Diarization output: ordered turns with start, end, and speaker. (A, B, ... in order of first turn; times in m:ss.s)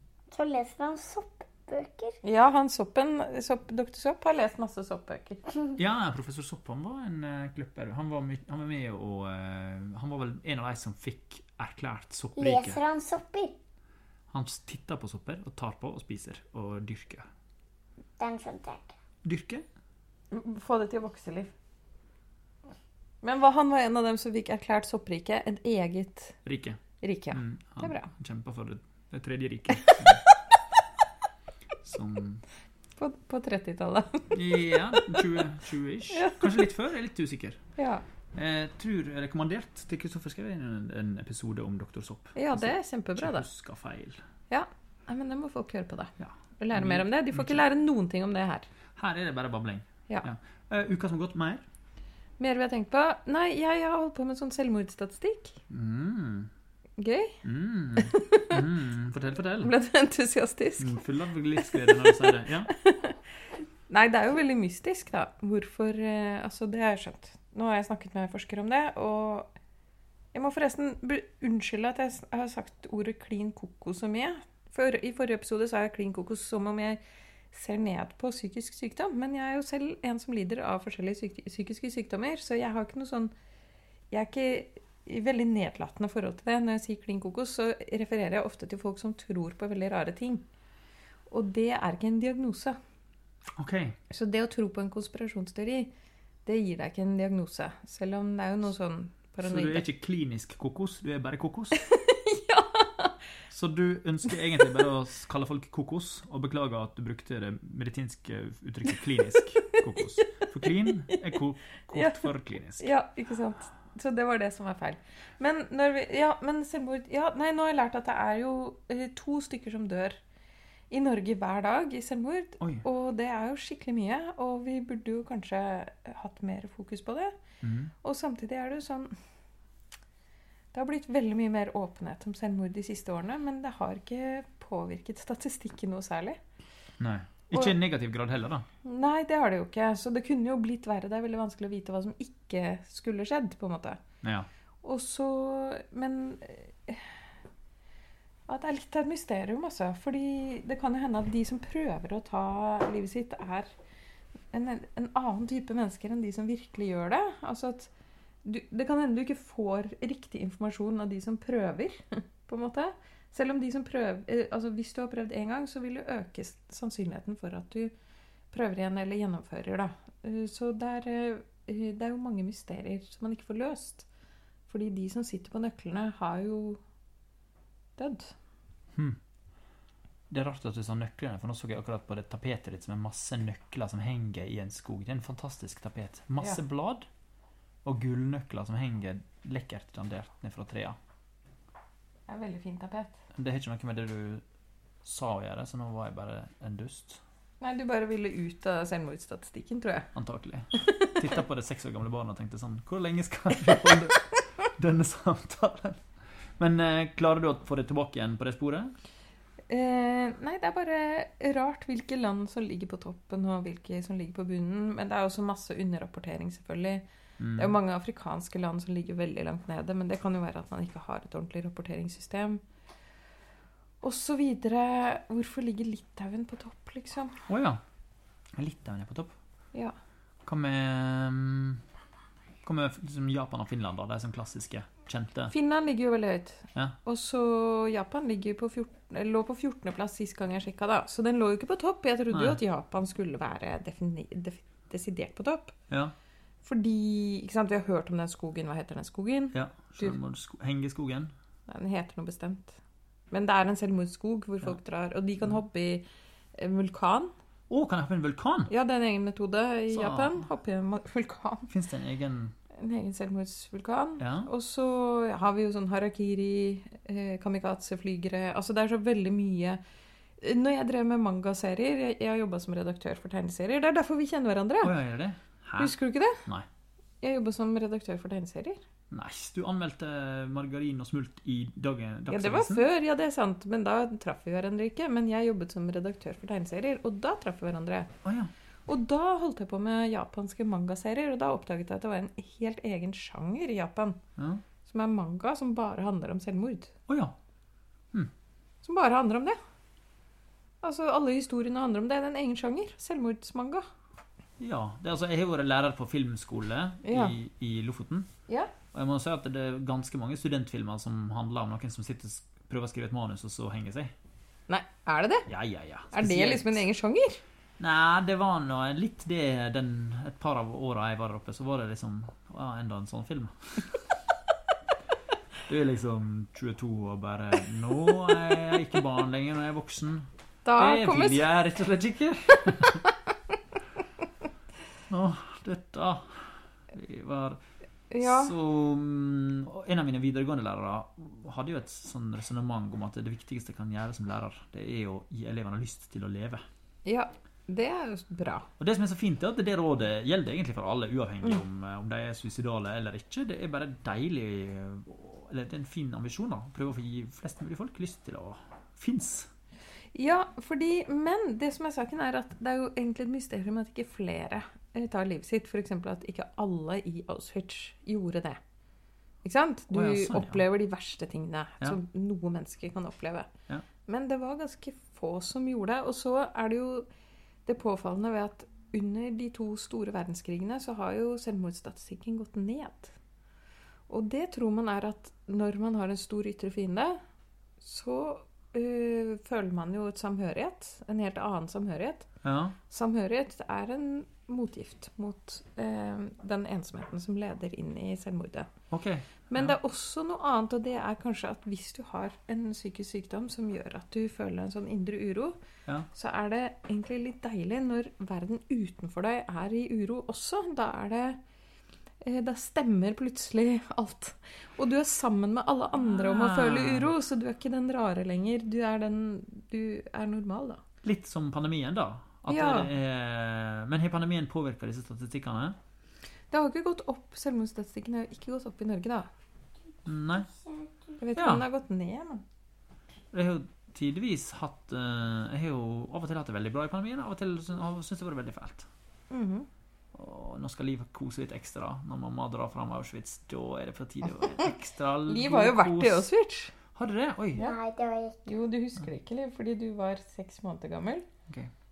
0:00.3-0:02.2 A
0:02.2-0:05.4 B
0:05.8-0:12.8 C
0:12.4-0:13.6 A
0:14.3-0:17.3 C
0:18.2-0:19.0 A
0:19.2-0:19.6 C
0:20.3-0:21.5 B
0:23.2-0:26.4 B
0:26.4-0:30.2 C
0:27.0-0:28.1 B
0:29.8-0:30.1 B
0:31.8-0:32.4 C
0:33.0-0:35.0 B
0:34.3-0:37.6 C
0:36.1-0:36.6 B
0:37.8-0:38.0 B
0:38.3-0:44.2 C
0:42.3-0:43.4 B
0:44.5-0:48.7 B
0:46.2-0:47.6 C
0:49.0-0:51.6 C
0:52.4-0:55.6 B
0:55.7-0:56.5 C
0:57.0-0:57.4 B
0:57.4-0:59.7 C
0:58.0-0:58.6 B
0:59.6-1:01.0 B
1:00.8-1:02.7 C
1:01.6-1:02.2 B
1:02.7-1:03.2 B
1:03.9-1:09.5 B
1:10.3-1:17.0 B
1:17.5-1:23.3 B
1:24.1-1:30.4 B
1:31.3-1:32.8 B
1:33.6-1:34.0 C
1:34.1-1:35.9 B
1:36.4-1:39.8 B
1:39.4-1:41.8 C
1:41.7-1:43.1 B
1:43.5-1:52.9 C
1:50.2-1:50.4 B
1:51.1-1:51.4 B
1:51.9-2:00.2 B
2:00.9-2:07.4 B
2:02.6-2:02.8 C
2:07.6-2:07.9 C
2:08.0-2:09.1 B
2:10.7-2:16.4 B
2:17.0-2:18.6 C
2:18.8-2:24.0 B
2:24.2-2:24.5 C
2:24.8-2:27.2 B
2:28.5-2:33.7 B
2:34.5-2:37.9 B
2:38.4-2:47.9 B
2:48.5-2:54.1 B
2:54.7-2:56.8 B
2:58.0-2:58.3 B
2:58.9-2:59.2 C
3:00.3-3:07.1 C
3:07.8-3:11.0 C
3:12.3-3:13.2 B
3:13.3-3:14.4 C
3:15.0-3:17.2 C
3:17.6-3:20.1 B
3:20.1-3:26.0 C
3:20.8-3:21.1 B
3:26.6-3:28.9 C
3:29.7-3:37.0 B
3:37.4-3:37.8 C
3:37.5-3:42.6 B
3:44.0-3:47.4 B
3:47.5-3:47.8 C
3:48.6-3:49.3 C
3:50.4-3:51.8 C
3:52.6-3:55.5 C
3:55.5-4:05.7 B
4:02.3-4:02.6 C
4:05.9-4:06.1 C
4:06.6-4:10.2 B
4:09.5-4:11.3 C
4:11.7-4:12.8 B
4:13.3-4:16.0 B
4:16.6-4:17.3 B
4:17.7-4:18.7 C
4:18.7-4:21.7 B
4:19.9-4:20.4 C
4:21.7-4:22.5 C
4:22.7-4:29.8 B
4:24.2-4:24.5 C
4:30.4-4:35.0 B
4:34.8-4:36.7 C
4:35.8-4:36.4 B
4:37.2-4:38.8 B
4:39.1-4:42.9 C
4:42.3-4:48.1 B
4:48.2-4:48.5 C
4:48.9-4:54.2 B
4:54.4-4:54.6 C
4:54.8-4:56.9 B
4:57.1-4:57.3 C
4:58.8-4:59.6 B
5:00.8-5:03.8 B
5:04.6-5:08.3 C
5:07.0-5:07.3 B
5:08.9-5:14.1 C
5:14.7-5:15.5 B
5:15.5-5:16.8 C
5:16.1-5:17.4 B
5:17.8-5:24.1 C
5:25.7-5:33.0 C
5:30.6-5:31.4 B
5:35.1-5:37.6 C
5:38.1-5:38.5 B
5:38.2-5:46.6 C
5:47.0-5:48.7 B
5:48.8-5:59.5 C
6:00.1-6:08.6 B
6:09.4-6:13.5 B
6:09.9-6:10.6 C
6:14.1-6:17.1 B
6:17.6-6:23.1 B
6:24.1-6:27.2 B
6:27.8-6:32.3 B
6:32.4-6:32.8 C
6:32.9-6:38.7 B
6:38.9-6:39.8 C
6:39.5-6:45.6 B
6:46.1-6:51.4 B
6:52.2-7:00.8 B
6:56.0-6:57.1 C
7:01.0-7:05.8 C
7:02.5-7:02.9 B
7:06.5-7:09.3 B
7:10.0-7:10.5 C
7:11.2-7:12.4 B
7:11.4-7:11.6 C
7:13.3-7:18.9 C
7:19.3-7:19.7 B
7:20.1-7:26.3 C
7:25.2-7:26.7 B
7:26.9-7:27.6 C
7:27.6-7:28.5 A
7:28.4-7:31.2 B